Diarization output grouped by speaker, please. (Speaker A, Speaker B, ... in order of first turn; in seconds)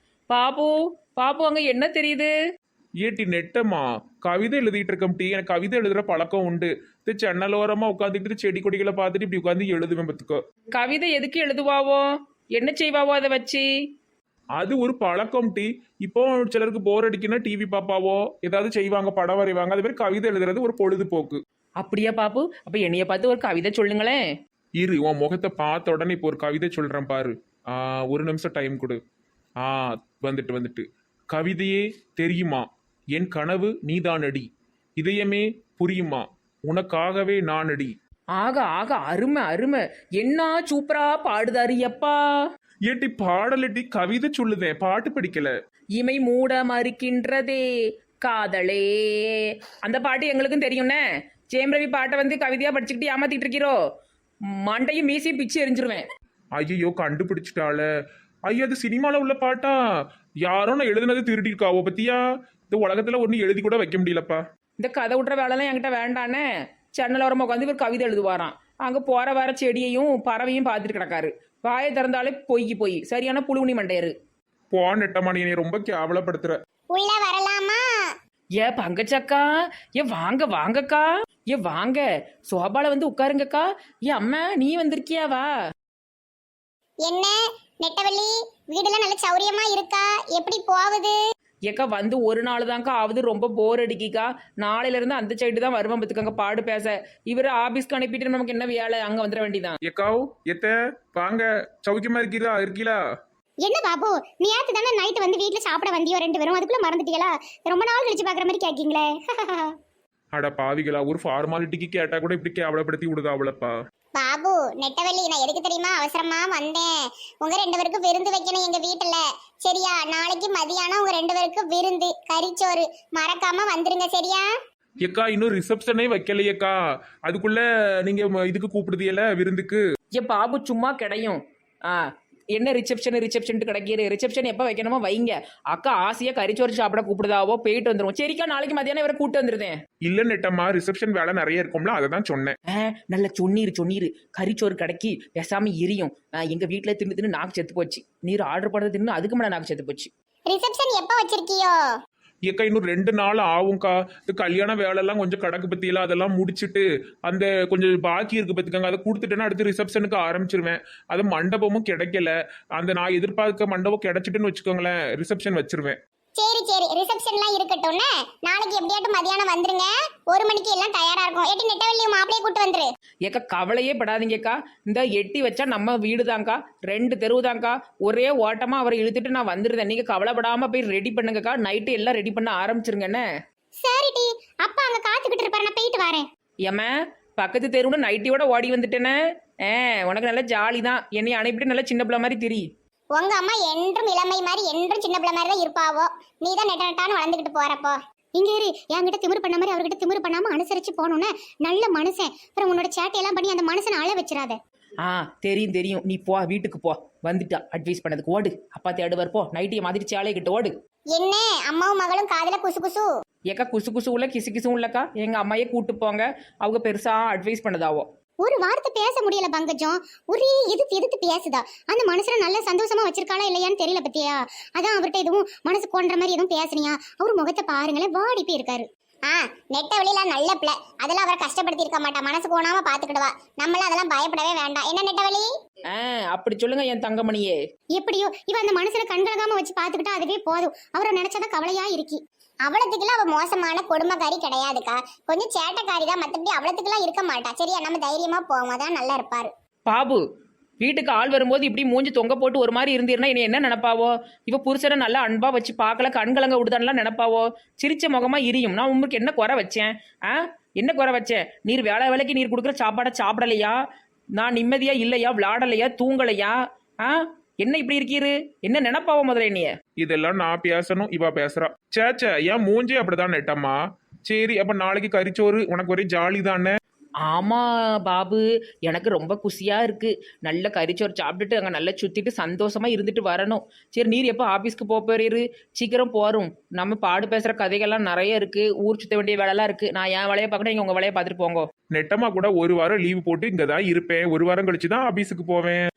Speaker A: 0.3-2.3, 10.8-12.0, 12.6-13.7, 21.8-24.2, 38.4-42.2, 46.0-47.6, 48.2-51.0, 51.5-53.8, 54.6-56.0, 64.8-66.5, 67.0-74.1, 78.6-79.4, 80.0-85.5, 91.7-99.8, 130.2-132.0, 132.6-139.8, 142.8-150.1, 173.3-183.2, 186.7-189.2, 189.7-192.7, 205.0-210.7, 213.5-218.1, 235.9-237.6, 249.9-250.2, 250.8-263.8, 264.4-269.7, 277.3-291.7
Speaker B: 3.0-10.4, 14.6-21.4, 24.8-29.0, 29.6-34.5, 35.0-37.9, 42.9-45.5, 56.6-57.9, 58.5-59.8, 60.5-64.4, 74.7-76.6, 99.8-103.0, 110.3-113.7, 125.0-129.8, 140.1-142.6, 152.5-166.0, 270.0-273.8, 274.3-276.8, 291.9-295.8
Speaker C: 76.9-77.8, 87.0-91.2, 103.6-109.8, 114.2-116.9, 117.4-124.5, 150.5-151.8, 166.4-172.9, 183.8-186.3, 193.2-204.6, 211.1-213.1, 218.4-235.5, 237.9-249.5